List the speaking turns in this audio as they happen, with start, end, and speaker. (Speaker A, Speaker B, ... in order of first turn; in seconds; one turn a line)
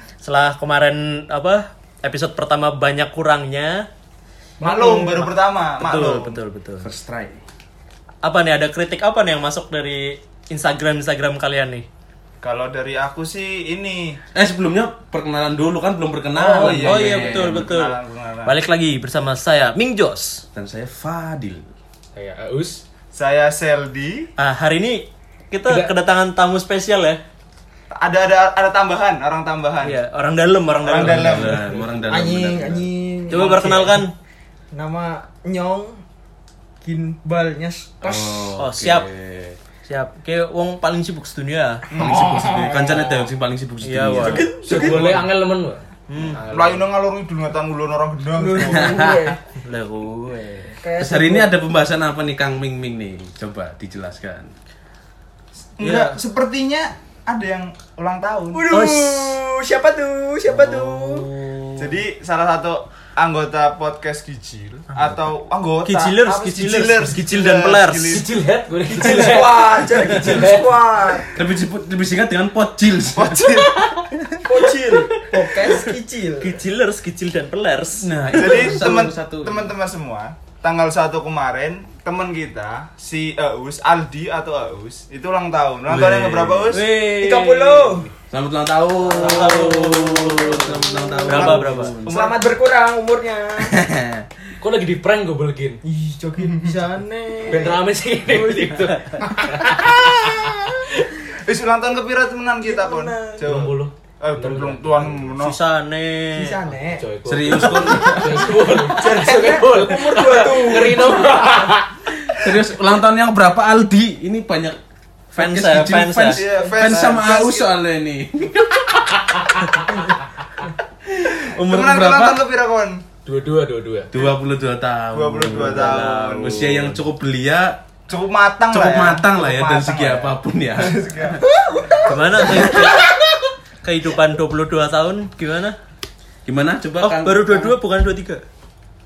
Speaker A: 0.2-3.9
Speaker B: 4.6-6.4
Speaker A: 4.6-6.9
Speaker C: 6.8-7.4
Speaker A: 8.2-11.9
Speaker B: 12.4-14.2
Speaker C: 14.3-17.7
Speaker B: 16.4-18.5
Speaker A: 16.6-20.4
Speaker C: 20.5-21.7
Speaker D: 22.1-22.8
Speaker B: 23.1-24.3
Speaker A: 24.4-27.2
Speaker D: 25.6-25.9
Speaker B: 27.9-30.0
Speaker A: 29.8-31.6
Speaker B: 30.8-31.8
Speaker C: 31.0-32.9
Speaker E: 32.1-34.1
Speaker A: 33.3-34.1
Speaker E: 34.7-36.0
Speaker E: 36.8-38.5
Speaker C: 38.0-39.6
Speaker A: 38.6-39.1
Speaker A: 39.9-41.9
Speaker B: 41.9-42.3
Speaker E: 41.9-43.3
Speaker C: 42.0-45.2
Speaker A: 43.8-44.5
Speaker E: 44.2-45.2
Speaker D: 44.6-46.9
Speaker A: 46.1-46.4
Speaker B: 46.5-49.0
Speaker E: 48.3-49.4
Speaker C: 48.6-49.4
Speaker A: 49.6-50.8
Speaker E: 50.8-51.5
Speaker C: 51.0-54.5
Speaker B: 55.8-58.7
Speaker A: 55.8-56.2
Speaker E: 58.5-61.3
Speaker A: 58.7-59.4
Speaker C: 60.8-61.5
Speaker B: 61.8-68.3
Speaker A: 65.8-68.2
Speaker D: 68.0-70.7
Speaker E: 68.9-71.3
Speaker C: 70.1-70.6
Speaker C: 71.3-73.5
Speaker B: 73.1-74.4
Speaker E: 74.5-76.6
Speaker A: 75.0-78.8
Speaker C: 78.0-79.7
Speaker B: 78.3-86.9
Speaker C: 85.9-86.8
Speaker A: 86.7-88.0
Speaker E: 86.9-88.1
Speaker C: 88.3-92.3
Speaker A: 89.1-90.4
Speaker E: 90.5-93.8
Speaker A: 91.2-92.0
Speaker B: 92.0-92.4
Speaker C: 93.6-94.2
Speaker D: 94.6-95.8
Speaker E: 95.8-99.9
Speaker B: 96.4-96.8
Speaker D: 97.5-101.1
Speaker B: 101.5-105.6
Speaker E: 102.6-103.6
Speaker D: 103.5-105.3
Speaker A: 105.4-106.6
Speaker E: 106.4-107.0
Speaker D: 106.9-111.9
Speaker C: 107.3-108.5
Speaker E: 108.8-111.3
Speaker C: 112.4-114.8
Speaker C: 115.3-119.5
Speaker A: 115.4-117.1
Speaker B: 116.2-117.7
Speaker D: 119.3-119.8
Speaker B: 121.5-123.0
Speaker A: 121.5-122.2
Speaker C: 121.7-122.4
Speaker D: 123.3-124.1
Speaker C: 124.1-127.8
Speaker B: 125.1-127.0
Speaker A: 125.5-126.7
Speaker B: 128.1-131.4
Speaker C: 128.7-131.4
Speaker E: 131.4-133.1
Speaker A: 132.1-133.1
Speaker A: 133.8-135.8
Speaker C: 136.4-137.7
Speaker A: 137.0-138.4